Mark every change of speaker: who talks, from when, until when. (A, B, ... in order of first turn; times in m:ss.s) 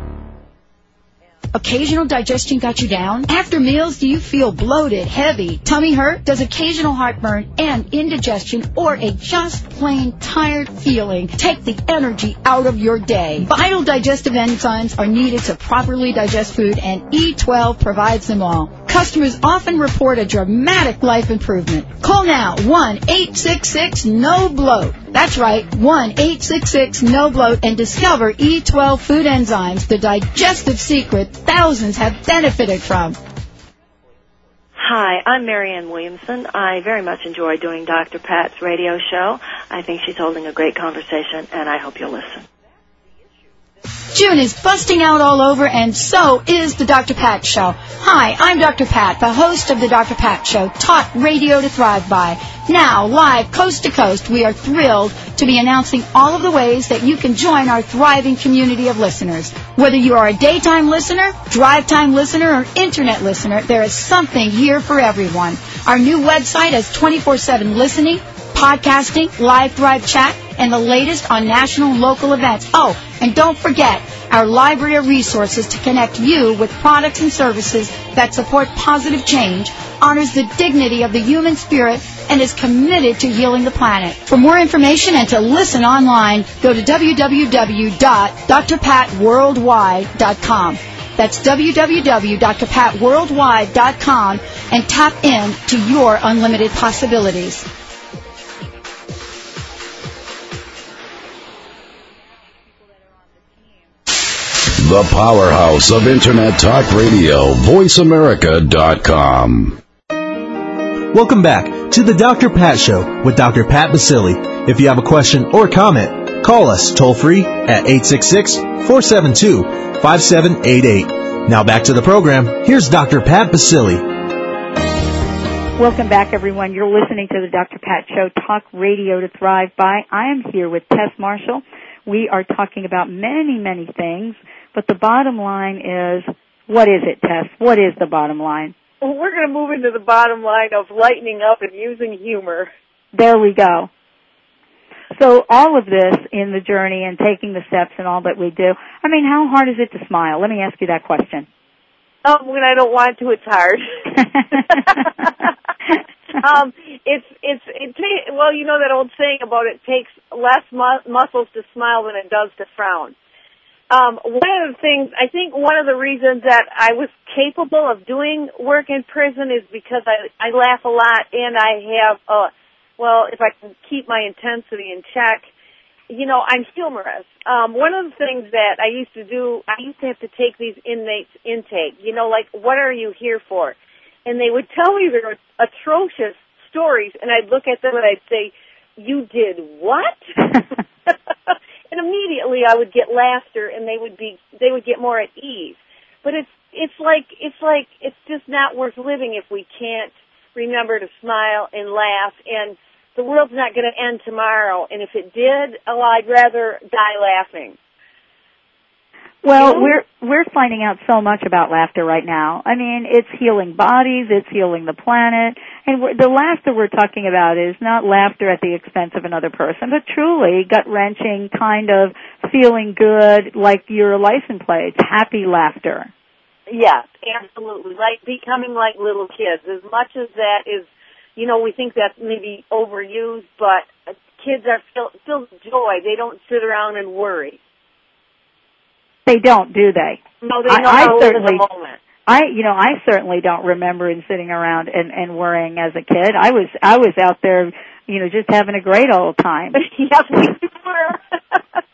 0:01.5-0:33.2 A
0:34.8-0:42.4 B
0:44.1-1:37.6 A
1:44.8-1:49.8 C
1:51.1-2:04.1 D
2:05.8-2:18.7 E
2:19.0-2:22.7 F
2:23.1-2:23.9 E
2:25.1-2:31.5 E
2:32.2-2:34.0 F
2:34.5-2:35.5 F
2:36.4-2:43.2 F
2:43.9-2:55.5 F
2:56.1-3:10.2 F
3:11.1-3:27.8 F
3:29.4-3:46.1 E
3:29.6-3:30.0 F
3:46.7-3:57.6 F
3:59.3-4:01.6 E
4:00.4-4:02.0 F
4:02.3-4:09.8 E
4:09.8-4:11.6 F